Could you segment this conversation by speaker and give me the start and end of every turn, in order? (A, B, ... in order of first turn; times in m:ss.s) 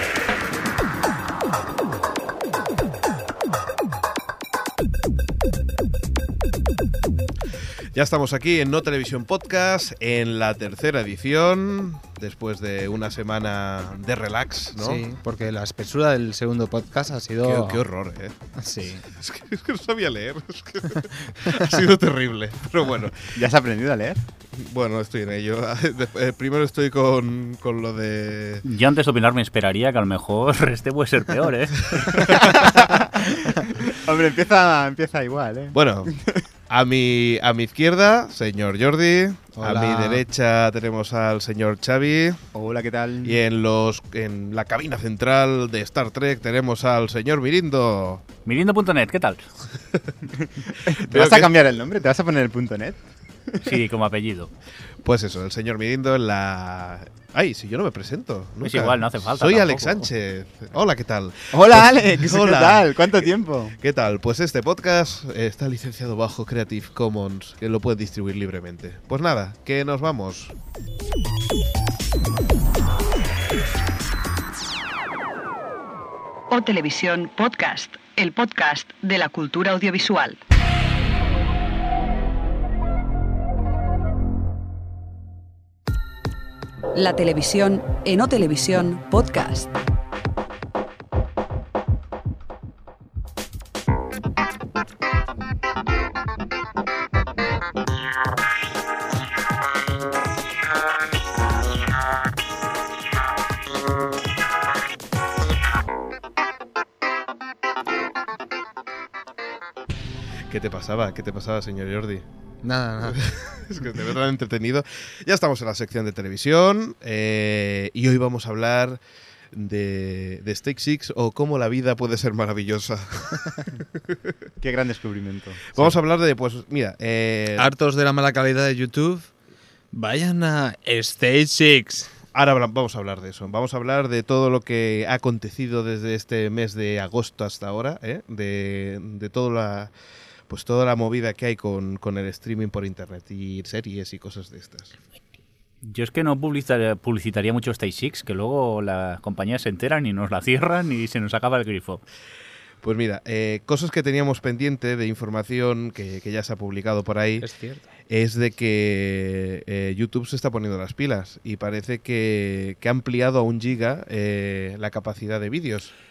0:07.9-0:15.0 A
0:14.8-0:17.8 B
0:17.4-0:18.3 A
0:18.6-0:19.0 B
0:19.0-0:23.4 A
0:23.3-0:24.2 C
0:24.5-0:28.6 A
0:28.6-0:32.6 D
0:32.0-0:32.4 A
0:32.2-0:36.4 C
0:35.7-0:36.1 A
0:36.7-0:42.4 A
0:39.6-0:40.2 B
0:42.5-0:43.4 C
0:43.2-0:48.2 A
0:48.4-0:49.4 D
0:50.6-0:53.7 C
0:50.9-0:51.5 A
0:53.6-0:54.5 D
0:55.0-1:10.5 A
0:58.6-1:00.1 D
1:01.5-1:03.8 C
1:16.5-1:20.4 E
1:26.9-1:29.7 E
1:50.5-1:52.2 A
1:52.6-1:53.2 B
1:53.0-1:59.0 A
1:59.5-2:03.6 A
2:04.6-2:05.7 C
2:05.7-2:07.7 A
2:07.6-2:09.3 B
2:09.9-2:12.1 B
2:12.3-2:19.9 A
2:20.5-2:24.9 A
2:25.8-2:32.0 D
2:32.8-2:37.5 A
2:37.4-2:37.8 B
2:38.1-2:45.9 A